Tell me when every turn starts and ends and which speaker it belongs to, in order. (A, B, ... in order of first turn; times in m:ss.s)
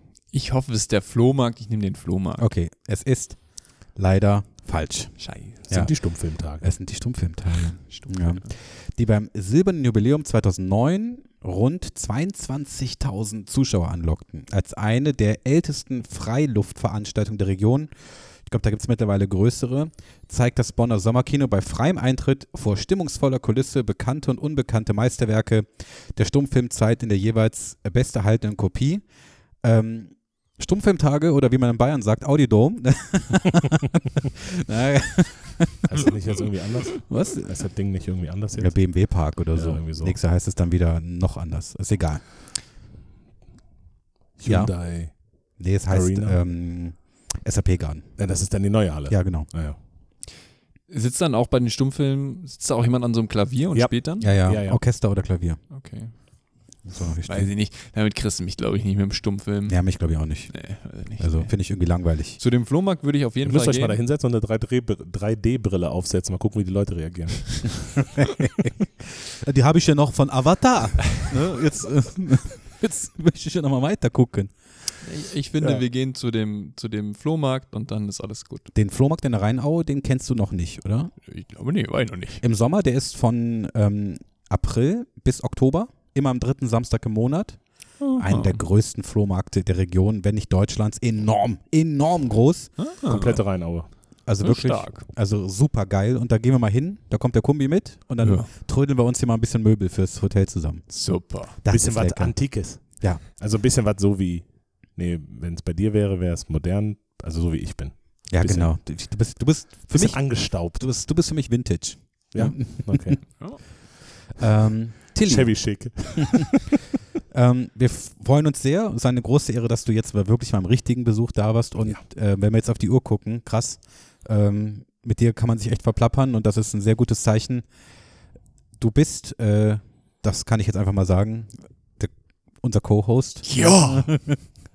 0:00.3-0:02.5 A
0:02.4-0:03.4 B
0:04.0-0:05.2 B
0:05.2-0:05.6 A
0:05.7-0:06.7 C
0:06.6-0:17.9 B
0:07.9-0:08.5 A
0:18.5-0:29.0 B
0:29.6-0:36.1 B
0:35.9-0:38.8 C
0:37.0-0:37.6 B
0:38.6-0:42.2 B
0:39.6-0:40.2 C
0:44.4-0:45.2 C
0:44.5-0:44.7 B
0:45.6-0:48.2 B
0:45.9-0:46.4 C
0:48.2-0:49.8 C
0:49.1-0:49.5 B
0:50.9-0:54.3 A
0:53.7-0:54.8 C
0:54.2-0:55.6 B
0:55.7-0:56.1 A
0:56.8-0:57.5 B
0:57.2-1:01.6 A
0:59.7-1:02.4 B
1:02.4-1:04.0 A
1:03.4-1:08.0 C
1:08.2-1:08.7 B
1:09.3-1:14.5 B
1:15.0-1:18.7 A
1:18.7-1:21.1 B
1:21.3-1:22.4 A
1:22.4-1:27.6 B
1:28.0-1:28.6 A
1:28.2-1:32.7 B
1:32.8-1:33.4 A
1:33.1-1:33.9 C
1:34.3-1:40.9 B
1:34.4-1:35.0 A
1:38.2-1:38.5 A
1:40.9-1:41.6 A
1:41.6-1:43.2 B
1:41.7-1:48.8 C
1:48.3-1:53.2 B
1:49.9-1:50.8 C
1:52.3-1:53.4 C
1:54.4-1:56.1 B
1:55.3-1:56.7 C
1:57.3-2:07.7 B
2:08.8-2:12.1 B
2:12.6-2:14.4 B
2:13.5-2:14.2 A